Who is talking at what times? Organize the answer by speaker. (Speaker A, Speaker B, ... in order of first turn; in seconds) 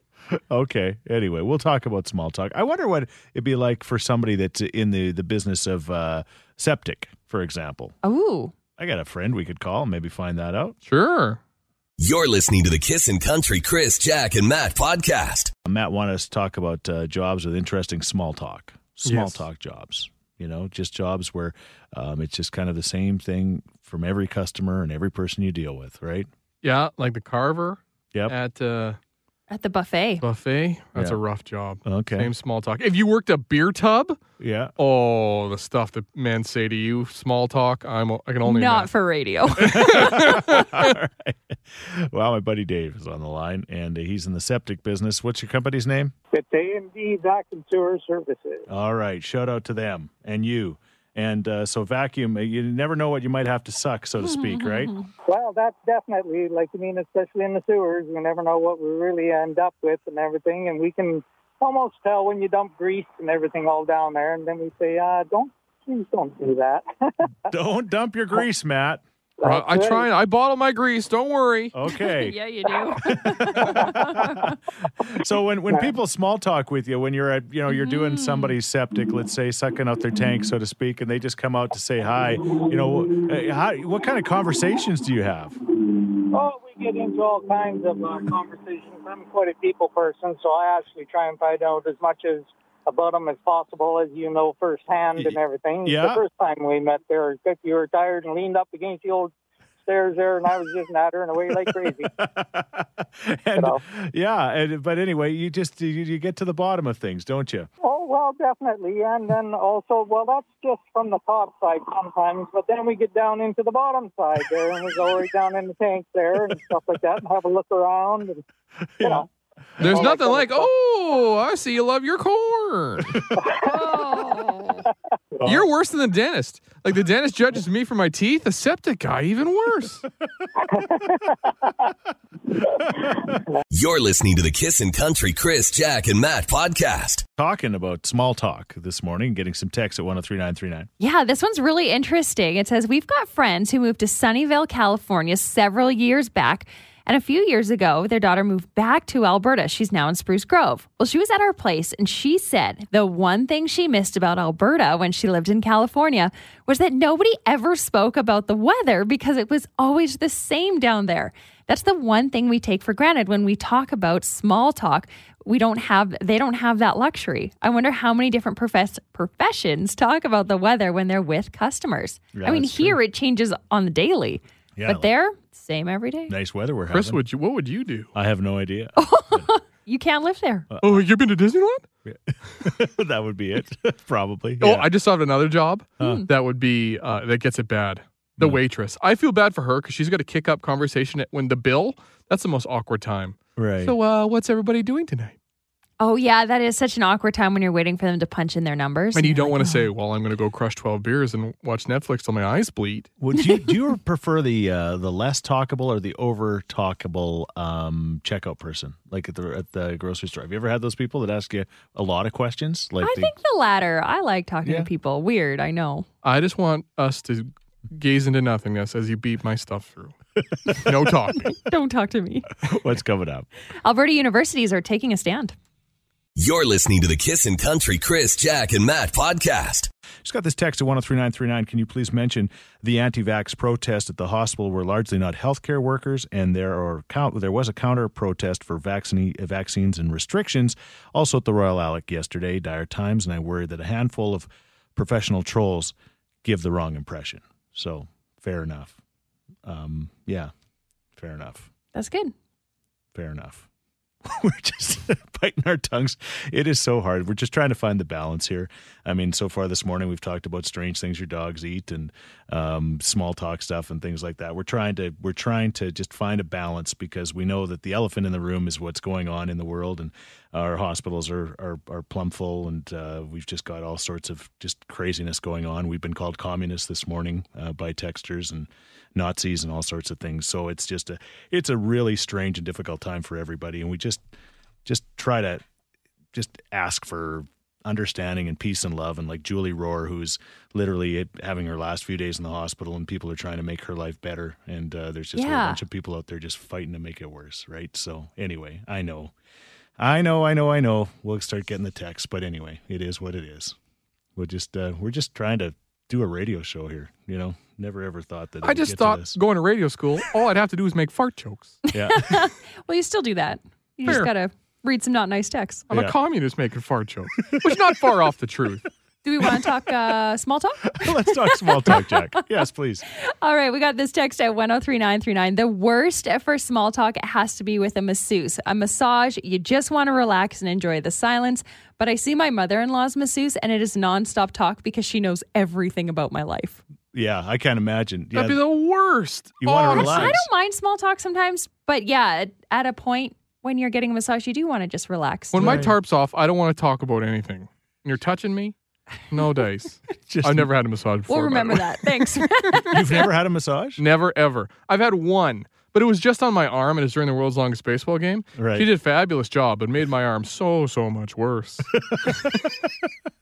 Speaker A: 0.3-8.0, 8.8-10.8, 15.7-26.3, 31.9-32.3, 34.4-34.7, 39.6-46.1, 48.7-55.0, 67.5-69.0, 71.7-72.4, 73.0-85.6, 95.2-96.2, 102.2-107.7, 119.0-119.2, 119.8-120.1, 137.4-140.9, 172.3-173.0, 174.8-175.1, 176.3-177.2, 178.1-179.4, 180.7-181.1, 182.1-184.9, 186.0-186.2, 193.6-193.9, 203.2-213.3, 222.7-223.5, 230.2-249.0, 249.7-250.5, 251.2-251.7, 253.2-253.7, 254.2-284.2, 284.9-285.6, 286.3-299.3, 300.0-303.8, 304.4-309.4, 311.9-312.5, 317.5-317.8, 320.9-323.0, 337.1-338.6, 339.6-340.5, 345.6-345.9, 350.3-350.7, 352.8-354.0, 358.6-358.9, 362.1-362.4
Speaker B: 8.0-8.5, 29.5-30.2, 38.4-40.6, 54.2-55.1, 71.9-74.6, 77.7-78.5, 123.6-124.9, 141.0-176.3, 179.0-180.7, 196.0-199.9, 203.4-203.7, 213.0-216.1, 221.5-222.5, 223.8-225.5, 251.9-252.3, 295.4-295.8, 311.9-315.9, 319.2-322.1, 323.4-336.8, 339.9-345.9, 351.3-353.2
Speaker C: 10.8-11.4, 19.0-19.4, 26.6-29.0, 30.2-34.2, 34.8-38.9, 39.6-40.9, 69.4-71.7, 119.8-123.2, 125.5-130.1, 176.9-178.1, 180.8-181.8, 184.6-195.3, 199.1-203.1, 216.2-220.1, 220.7-221.6, 308.6-311.8, 315.9-318.9, 338.3-340.4, 345.5-348.8, 349.3-351.9, 354.0-362.4
Speaker D: 12.0-15.5, 133.7-137.2, 226.4-229.9
Speaker E: 46.3-48.7, 55.3-67.3, 69.4-70.1, 86.3-102.1, 107.8-118.4, 119.8-120.7, 123.3-124.0, 130.6-131.7, 132.5-133.6